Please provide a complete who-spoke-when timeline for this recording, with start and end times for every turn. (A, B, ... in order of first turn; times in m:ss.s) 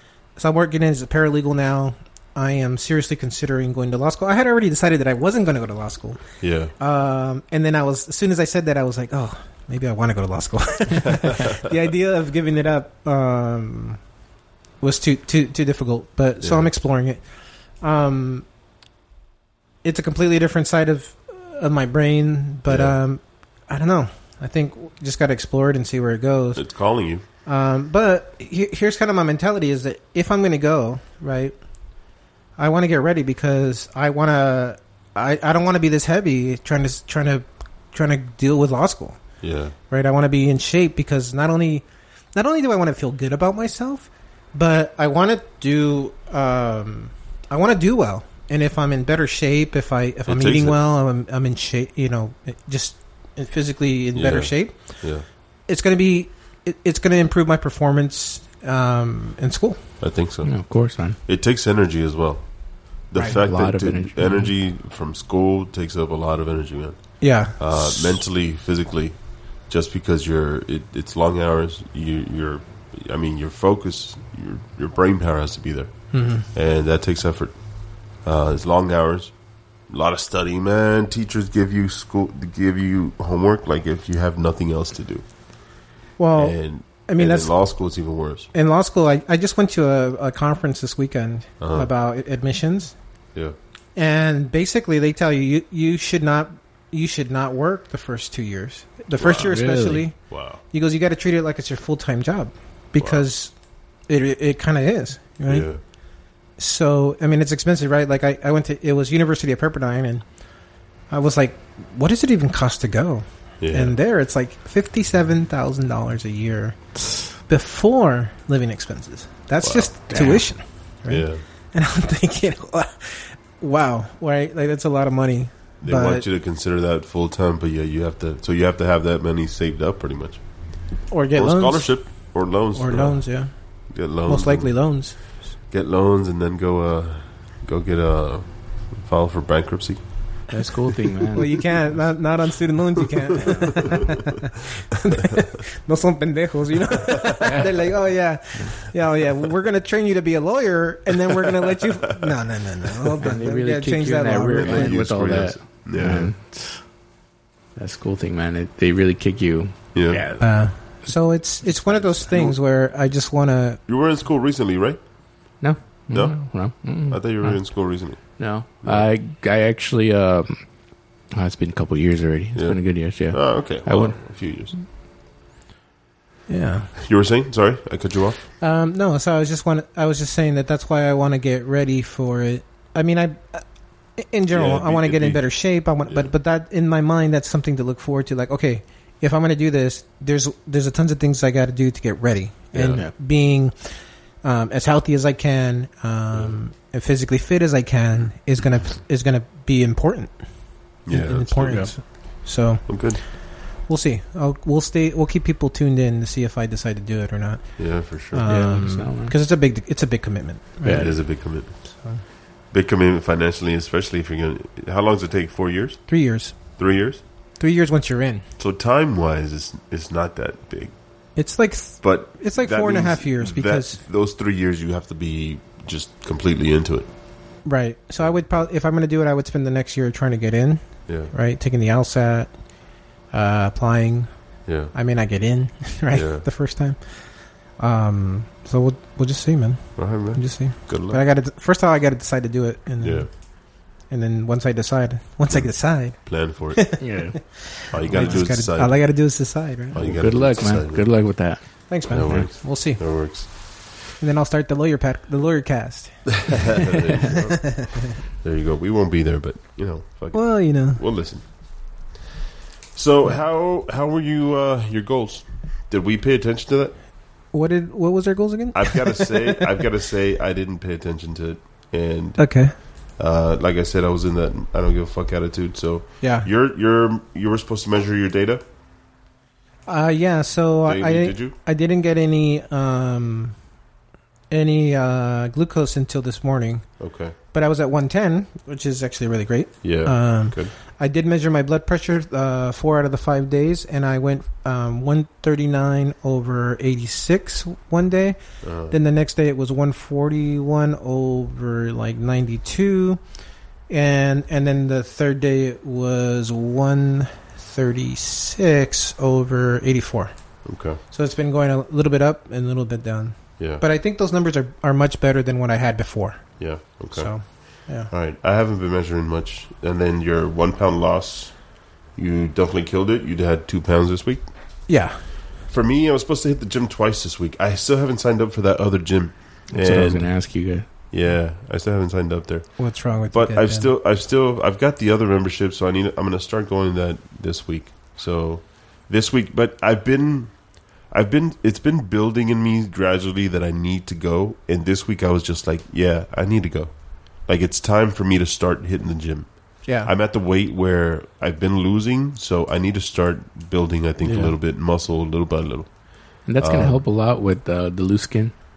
0:00.4-0:06.3 A
0:06.4-0:06.7 B
0:06.8-0:14.0 A
0:11.2-0:11.6 B
0:14.8-0:17.2 A
0:16.4-0:16.7 B
0:17.8-0:18.5 A
0:19.8-0:26.6 A
0:22.7-0:23.0 B
0:26.6-0:27.2 B
0:27.5-0:31.6 A
0:32.6-0:39.2 A
0:39.4-0:39.8 B
0:39.9-0:55.0 A
0:50.3-0:50.8 B
0:54.2-0:55.2 B
0:55.7-0:59.8 A
1:00.0-1:00.6 B
1:00.4-1:01.2 C
1:01.2-1:02.5 B
1:03.1-1:17.6 B
1:03.2-1:03.4 A
1:03.4-1:04.5 C
1:07.2-1:08.2 A
1:16.1-1:16.5 A
1:18.2-1:19.4 B
1:19.9-1:25.3 B
1:26.2-1:27.6 A
1:26.4-1:28.5 B
1:28.5-1:33.0 A
1:31.6-1:31.9 B
1:34.0-1:40.2 A
1:39.2-1:39.5 B
1:39.4-1:40.1 C
1:40.3-1:40.6 B
1:40.7-1:43.5 A
1:43.0-1:43.3 B
1:44.1-1:45.7 A
1:45.5-1:45.8 B
1:46.6-1:50.2 A
1:51.1-1:56.8 A
1:53.6-1:54.0 B
1:57.4-2:06.3 A
1:59.6-1:59.9 B
2:00.1-2:00.4 C
2:01.1-2:01.4 B
2:05.8-2:10.5 B
2:11.1-2:15.2 A
2:11.4-2:20.5 B
2:20.5-2:21.7 C
2:21.3-2:35.0 A
2:23.3-2:24.2 B
2:23.4-2:24.1 C
2:27.1-2:27.4 B
2:33.2-2:36.9 C
2:34.6-2:36.3 B
2:37.8-2:41.1 C
2:39.9-2:40.2 B
2:40.4-2:43.8 A
2:41.8-2:42.6 B
2:43.9-2:45.0 B
2:45.6-2:50.8 C
2:46.1-2:49.1 B
2:51.3-2:54.2 C
2:52.6-2:54.8 B
2:56.5-2:56.9 A
2:57.0-2:58.5 B
2:58.6-3:03.7 A
3:04.2-3:20.4 A
3:04.5-3:05.5 B
3:12.7-3:13.0 B
3:21.1-3:22.0 B
3:21.1-3:32.2 A
3:22.9-3:23.2 B
3:27.8-3:28.5 B
3:28.5-3:29.3 C
3:30.8-3:31.1 C
3:30.9-3:31.8 B
3:32.7-3:36.1 B
3:36.1-3:36.8 A
3:36.8-3:37.2 B
3:37.6-3:38.5 A
3:38.6-3:41.0 B
3:41.4-3:44.0 A
3:42.0-3:47.1 B
3:47.6-3:52.6 A
3:51.1-3:51.3 B
3:53.3-3:54.3 A
3:54.7-3:54.9 B
3:54.9-3:57.0 A
3:56.1-3:56.5 B
3:57.8-4:10.1 A
4:00.0-4:01.2 B
4:03.0-4:03.3 B
4:05.5-4:07.1 B
4:07.0-4:07.4 C
4:07.9-4:09.0 B
4:09.9-4:11.1 B
4:10.0-4:12.5 C
4:11.9-4:13.0 A
4:12.1-4:13.5 B
4:14.2-4:18.1 A
4:16.5-4:21.6 B
4:20.3-4:21.0 A
4:22.9-4:27.0 B
4:27.5-4:29.7 A
4:28.7-4:38.6 B
4:32.4-4:32.8 A
4:36.2-4:36.5 A
4:39.9-4:43.6 A
4:40.9-4:41.6 B
4:44.5-4:46.9 A
4:47.0-4:47.4 B
4:47.5-5:03.2 A
4:49.8-4:50.7 B
4:58.6-4:59.0 B
5:03.9-5:10.3 A
5:10.6-5:11.0 B
5:11.1-5:16.6 A
5:13.6-5:13.8 B
5:16.6-5:24.5 B
5:17.1-5:18.1 A
5:24.9-5:25.2 A
5:25.7-5:30.5 B
5:29.7-5:30.9 C
5:31.1-5:40.6 B
5:32.8-5:33.9 A
5:41.1-5:56.0 B
5:49.8-5:50.1 A
5:54.2-5:54.5 C
5:56.5-5:58.6 C
5:56.6-5:57.0 B